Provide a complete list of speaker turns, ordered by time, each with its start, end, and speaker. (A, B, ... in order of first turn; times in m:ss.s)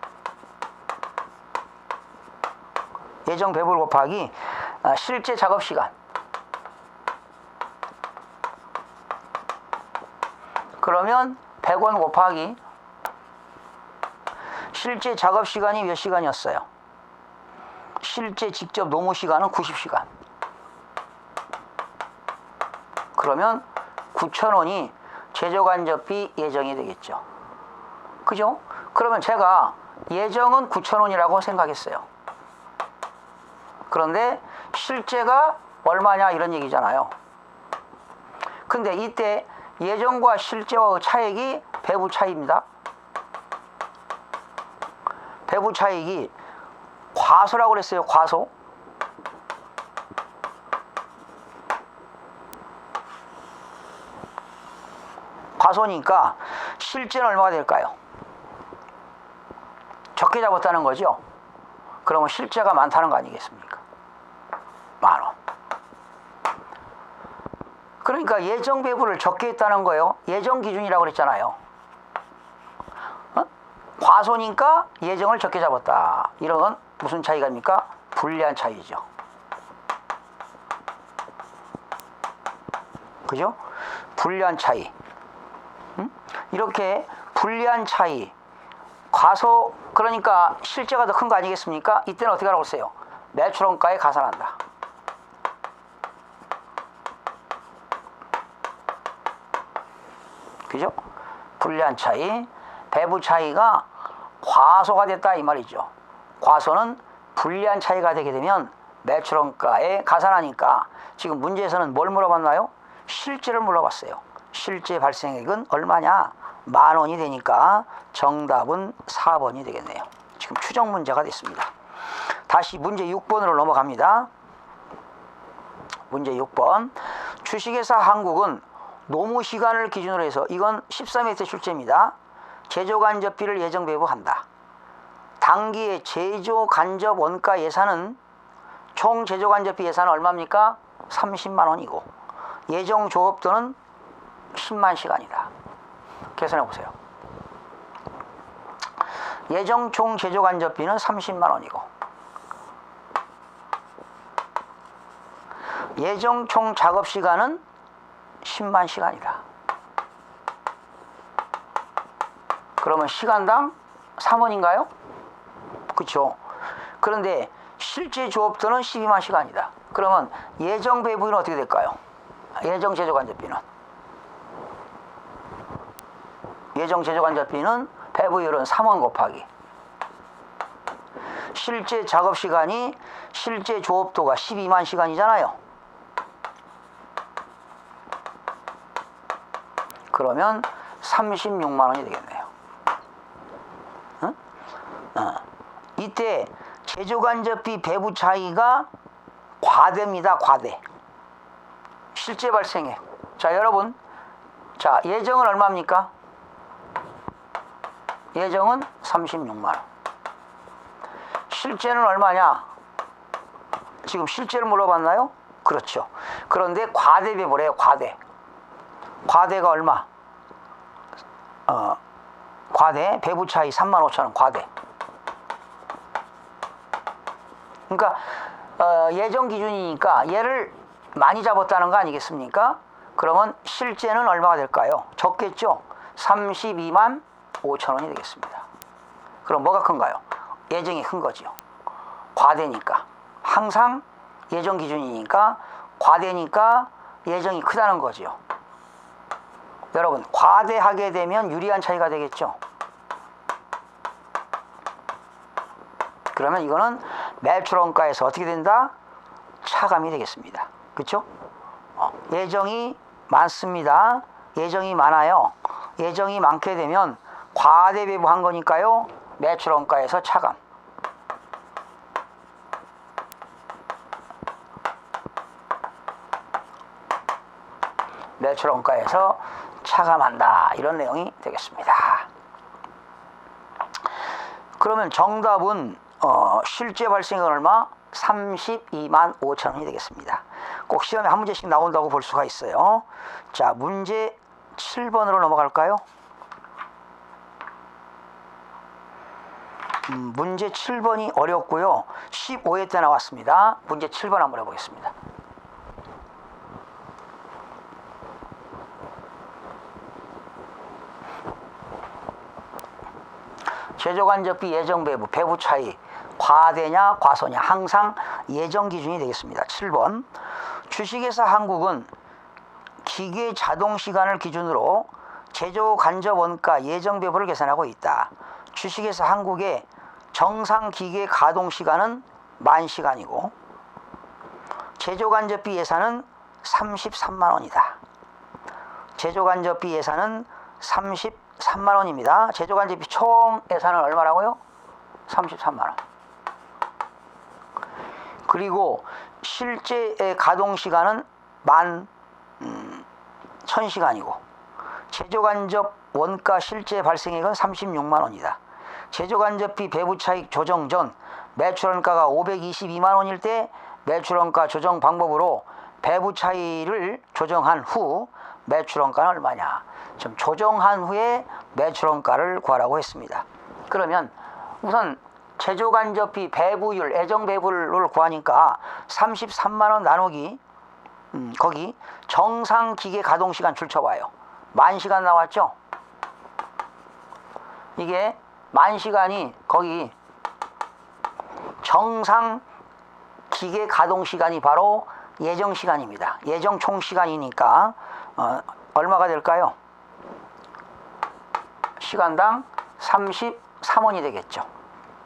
0:03.2-0:05.9 A
0:10.8-0:12.6 A
0:14.7-0:16.7 A
0:18.0-0:20.1 A
0:23.2-0:27.2 A
0:28.2-0:32.1 A
0:33.9-0:37.1 A
0:38.7-0:42.6 A
0:45.5-0:46.3 A
0:47.1-0:48.5 A
0:55.6-0:58.0 A
1:00.2-1:01.2 A
1:02.0-1:03.8 A
1:05.0-1:05.4 A
1:08.0-1:11.6 A
1:14.0-1:19.0 A
1:23.3-1:23.6 A
1:24.2-1:24.9 A
1:26.0-1:28.3 A
1:29.1-1:34.6 A
1:40.7-1:41.0 A
1:41.6-1:43.9 A
1:44.4-2:01.7 A
2:02.5-2:04.3 A
2:06.1-2:12.2 A
2:12.7-2:14.4 A
2:15.4-2:18.2 A
2:19.0-2:22.1 A
2:22.7-2:23.8 A
2:24.5-2:25.5 A
2:26.4-2:26.9 A
2:29.5-2:31.9 A
2:36.0-2:37.6 A
2:38.4-2:39.4 A
2:42.8-2:44.9 A
2:45.9-2:46.4 A
2:47.0-2:52.0 A
2:52.6-2:53.6 A
2:56.8-2:59.5 A
3:01.5-3:05.6 A
3:10.1-3:12.5 A
3:15.2-3:15.4 A
3:16.0-3:18.9 A
3:19.6-3:20.8 A
3:22.1-3:24.0 A
3:24.8-3:26.1 A
3:28.3-3:29.8 A
3:31.5-3:32.7 A
3:34.0-3:38.2 A
3:39.3-3:40.1 A
3:41.7-3:42.0 A
3:42.7-3:44.7 A
3:47.9-3:58.6 A
3:59.4-4:01.5 A
4:02.4-4:08.4 A
4:09.9-4:12.6 A
4:16.3-4:18.9 A
4:19.6-4:21.3 A
4:22.0-4:30.6 A
4:38.4-4:42.3 A
4:44.8-4:56.0 A
5:00.1-5:05.1 A
5:14.0-5:20.3 A
5:20.9-5:22.1 A
5:23.0-5:33.5 A
5:35.0-5:38.0 A
5:39.2-5:44.6 A
5:45.3-5:46.0 A
5:48.5-5:52.1 A
5:52.6-5:53.1 A
5:53.6-5:54.4 A
5:55.1-5:58.6 A
5:59.1-6:20.6 A
6:21.3-6:25.8 A
6:28.0-6:30.1 A
6:31.8-6:32.6 A
6:33.5-6:39.8 A
6:42.0-6:44.7 A